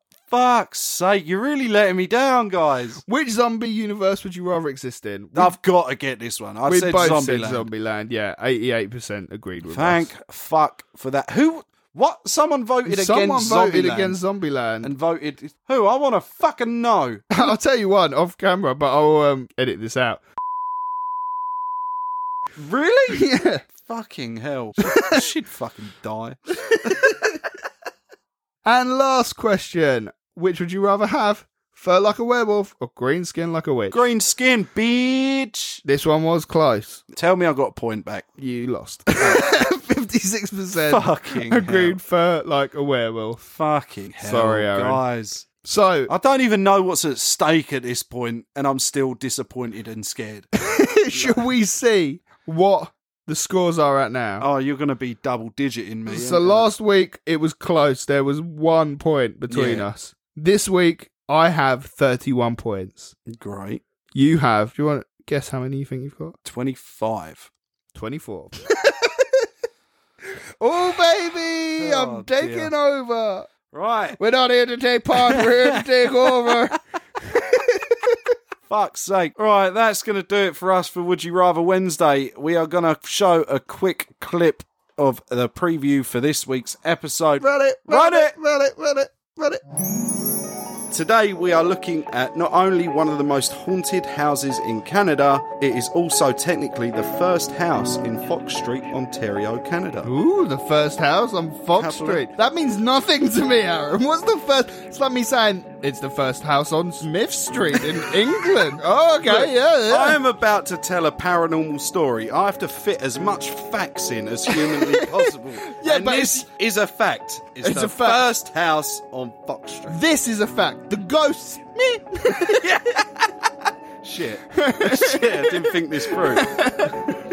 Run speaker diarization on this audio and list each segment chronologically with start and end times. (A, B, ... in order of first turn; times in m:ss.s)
0:00.3-0:03.0 A
0:03.1-0:05.6 B
0:05.4-0:07.7 A
0:06.7-0:10.1 B
0:09.6-0:14.2 A
0:12.8-0:14.9 B
0:14.8-0:17.5 A
0:17.3-0:20.2 B
0:22.6-0:27.2 A
0:23.1-0:23.6 B
0:24.8-0:25.2 B
0:28.6-0:34.0 B
0:33.9-0:35.8 A
0:35.8-0:37.0 B
0:37.1-0:38.3 A
0:38.4-0:43.4 B
0:40.8-0:42.0 A
0:43.4-0:45.5 A
0:44.2-0:45.0 B
0:45.6-0:46.1 B
0:46.1-0:50.5 A
0:50.7-0:54.5 B
0:51.1-0:51.5 A
0:54.4-0:56.7 A
0:56.1-1:03.2 B
0:59.5-0:59.9 A
1:03.3-1:03.8 A
1:04.1-1:06.4 B
1:06.4-1:07.5 A
1:08.0-1:09.3 B
1:10.6-1:13.5 B
1:11.8-1:12.7 A
1:13.7-1:14.2 A
1:14.2-1:16.8 B
1:15.2-1:16.6 A
1:17.3-1:18.2 B
1:18.7-1:28.3 A
1:27.4-1:29.6 B
1:30.9-1:40.1 A
1:40.0-1:50.2 B
1:41.8-1:42.3 A
1:49.2-2:00.0 A
1:54.6-1:56.5 B
1:57.6-1:58.3 B
1:59.9-2:02.7 B
2:02.6-2:03.3 A
2:04.0-2:06.5 A
2:04.6-2:05.5 B
2:06.2-2:06.9 B